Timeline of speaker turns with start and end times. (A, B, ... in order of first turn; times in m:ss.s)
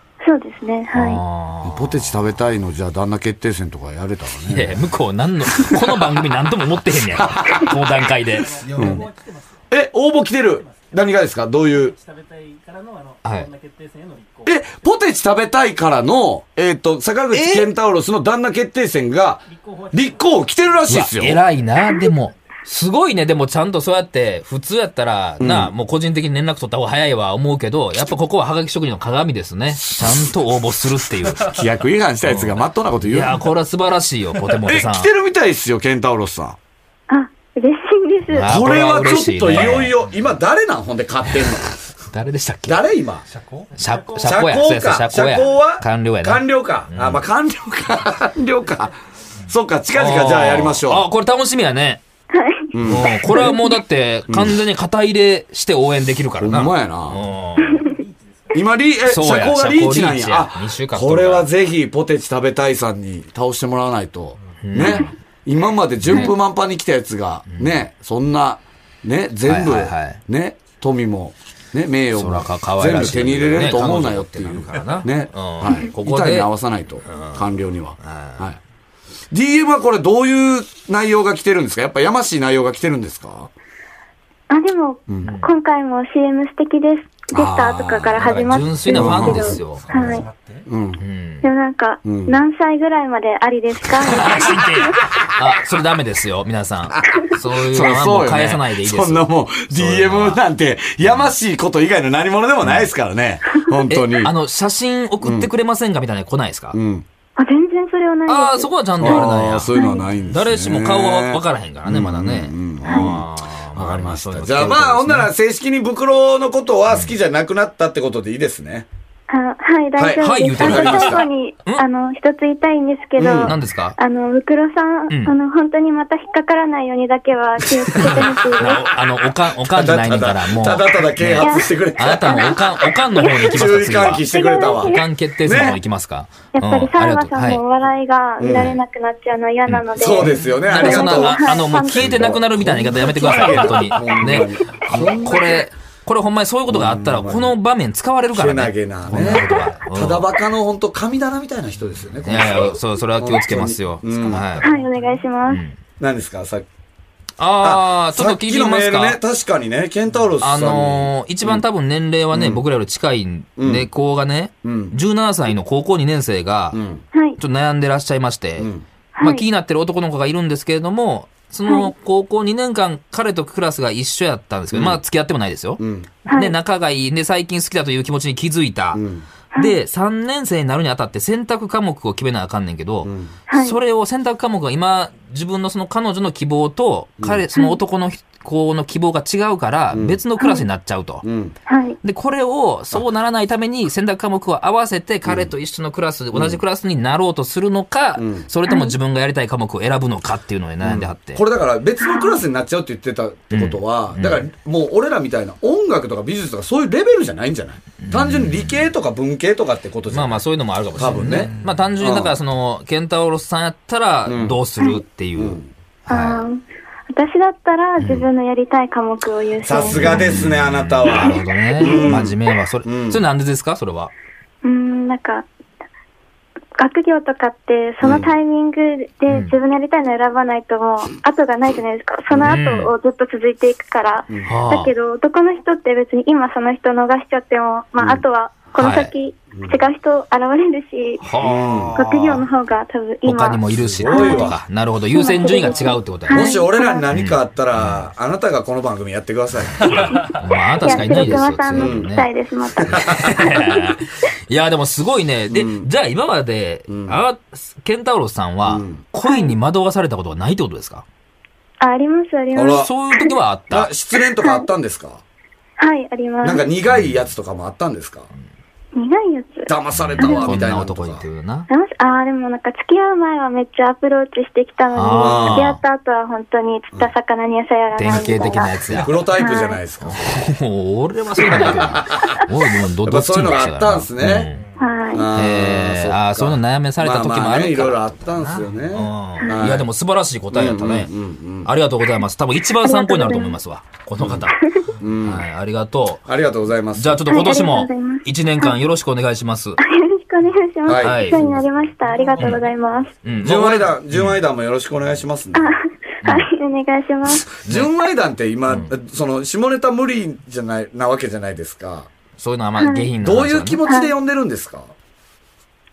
0:00.2-0:01.2 A
0:00.9-0:02.2 B
0:01.6-0:04.9 C
0:04.5-0:08.6 B
0:05.5-0:06.2 C
0:07.1-0:07.8 C
0:07.6-0:09.6 D
0:08.6-0:09.1 E
0:08.8-0:09.0 C
0:09.7-0:12.0 C
0:10.4-0:11.0 D
0:11.8-0:14.8 D
0:13.2-0:13.5 B
0:14.5-0:21.4 C
0:17.3-0:17.7 B
0:19.5-0:21.1 D
0:20.9-0:31.6 B
0:25.4-0:25.7 C
0:29.8-0:30.3 C
0:31.4-0:33.4 C
0:32.3-0:35.1 B
0:34.7-0:36.6 C
0:37.1-0:38.5 A
0:38.3-0:40.0 B
0:38.4-0:41.8 C
0:40.0-0:40.3 E
0:42.1-0:42.8 B
0:42.7-0:43.2 C
0:43.3-0:43.8 E
0:43.7-0:44.7 D
0:43.8-0:47.2 B
0:44.2-0:48.9 C
0:48.2-0:49.0 D
0:49.5-0:51.1 C
0:49.9-0:52.0 B
0:52.3-0:53.8 A
0:52.7-0:53.1 C
0:52.8-0:57.8 B
0:54.3-0:54.6 C
0:56.4-0:57.2 C
0:57.6-0:58.7 D
0:58.5-1:18.6 C
0:59.1-1:01.5 B
1:04.6-1:05.1 B
1:07.5-1:07.8 B
1:09.5-1:10.2 B
1:12.2-1:16.5 B
1:17.1-1:17.5 B
1:18.0-1:18.5 B
1:19.3-1:23.5 C
1:24.5-1:30.3 A
1:25.2-1:25.5 B
1:27.3-1:29.6 C
1:28.2-1:30.1 B
1:29.0-1:30.7 E
1:30.7-1:31.0 C
1:31.0-1:31.5 B
1:31.4-1:35.0 A
1:32.0-1:32.4 C
1:34.0-1:40.4 B
1:37.6-1:44.3 C
1:41.0-1:41.3 B
1:42.6-1:42.9 B
1:43.9-1:46.8 B
1:45.2-1:45.5 C
1:46.7-1:47.0 C
1:47.4-1:50.1 A
1:48.3-1:49.8 B
1:49.0-1:58.9 C
1:50.3-1:55.3 B
1:52.8-1:53.1 A
1:59.3-2:08.9 A
2:00.0-2:01.3 C
2:00.2-2:01.8 B
2:03.2-2:03.6 C
2:03.4-2:04.0 B
2:05.1-2:05.4 B
2:07.9-2:08.7 C
2:07.9-2:17.6 B
2:09.7-2:15.8 C
2:11.4-2:11.7 A
2:12.2-2:12.6 A
2:13.1-2:13.5 A
2:14.1-2:15.8 A
2:16.5-2:22.4 A
2:18.4-2:18.8 C
2:18.5-2:18.8 B
2:19.7-2:30.3 B
2:20.0-2:25.7 C
2:23.2-2:23.7 A
2:26.7-2:27.6 C
2:28.3-2:34.6 C
2:32.2-2:34.8 B
2:34.6-2:35.6 A
2:35.5-2:35.8 B
2:36.0-2:36.7 C
2:37.4-2:39.2 B
2:37.6-2:41.6 C
2:40.4-2:46.8 B
2:42.3-2:42.6 C
2:43.6-2:43.9 C
2:44.6-2:45.0 C
2:46.7-2:47.0 C
2:47.1-2:47.4 A
2:47.4-2:48.7 B
2:48.6-2:48.8 C
2:49.2-2:49.4 A
2:49.2-3:11.2 B
2:54.7-2:55.0 C
2:55.8-2:56.1 C
2:56.3-2:56.6 A
2:58.9-2:59.2 C
3:03.0-3:03.3 C
3:03.5-3:03.8 A
3:09.9-3:10.2 C
3:10.4-3:10.6 A
3:11.2-3:11.5 C
3:11.7-3:12.0 A
3:12.0-3:21.4 B
3:15.2-3:15.5 C
3:16.3-3:16.6 C
3:18.2-3:18.5 C
3:18.7-3:19.0 A
3:20.8-3:30.4 C
3:22.0-3:22.4 A
3:23.5-3:24.4 B
3:28.0-3:28.8 B
3:30.1-3:36.4 B
3:31.0-3:32.3 C
3:31.4-3:31.9 E
3:34.3-3:34.6 C
3:35.4-3:35.7 C
3:36.1-3:40.2 A
3:39.6-3:43.2 C
3:39.8-3:44.1 B
3:41.1-3:42.1 A
3:44.6-3:45.5 A
3:46.8-4:01.2 A
3:48.0-3:48.3 C
3:49.3-3:49.6 B
3:52.3-3:52.6 C
3:52.4-3:52.9 B
3:54.5-3:54.9 B
3:58.8-3:59.1 B
3:59.5-3:59.8 C
4:01.2-4:02.4 B
4:01.4-4:02.0 C
4:01.9-4:04.6 A
4:03.2-4:06.6 B
4:03.8-4:04.6 C
4:05.1-4:07.0 A
4:06.3-4:10.2 C
4:07.1-4:08.1 B
4:09.8-4:10.3 A
4:10.3-4:12.3 B
4:10.8-4:14.0 A
4:10.9-4:12.1 C
4:12.8-4:21.0 B
4:12.9-4:13.3 C
4:15.5-4:15.9 C
4:16.9-4:17.2 C
4:18.6-4:19.0 C
4:19.2-4:19.5 A
4:21.8-4:23.4 A
4:22.5-4:22.9 C
4:22.7-4:23.9 B
4:23.7-4:25.2 C
4:24.4-4:24.7 A
4:25.8-4:26.7 A
4:26.4-4:28.3 C
4:26.9-4:27.2 B
4:29.0-4:30.5 A
4:29.7-4:31.2 C
4:30.0-4:31.7 B
4:31.7-4:39.8 A
4:35.0-4:35.8 B
4:35.2-4:35.8 C
4:38.0-4:39.2 B
4:38.9-4:40.5 C
4:40.0-4:44.6 B
4:41.4-4:42.4 C
4:43.0-4:44.5 C
4:44.6-4:44.9 E
4:44.8-4:45.3 A
4:45.1-4:49.9 C
4:45.4-4:51.1 B
4:50.5-4:51.7 C
4:51.6-4:56.3 B
4:52.8-4:53.6 A
4:54.5-4:54.8 A
4:55.0-4:55.4 C
4:56.3-4:57.3 C
4:57.0-4:59.8 B
4:57.3-4:58.8 A
4:59.8-5:03.1 A
5:00.9-5:01.5 C
5:00.9-5:01.6 B
5:02.0-5:02.8 E
5:02.4-5:02.7 B
5:03.2-5:04.4 B
5:03.4-5:05.8 C
5:05.6-5:07.5 A
5:06.2-5:06.5 B
5:07.6-5:12.1 C
5:07.6-5:07.9 B
5:08.7-5:08.9 B
5:12.4-5:13.8 B
5:12.8-5:13.1 A
5:13.2-5:14.9 C
5:13.9-5:14.1 A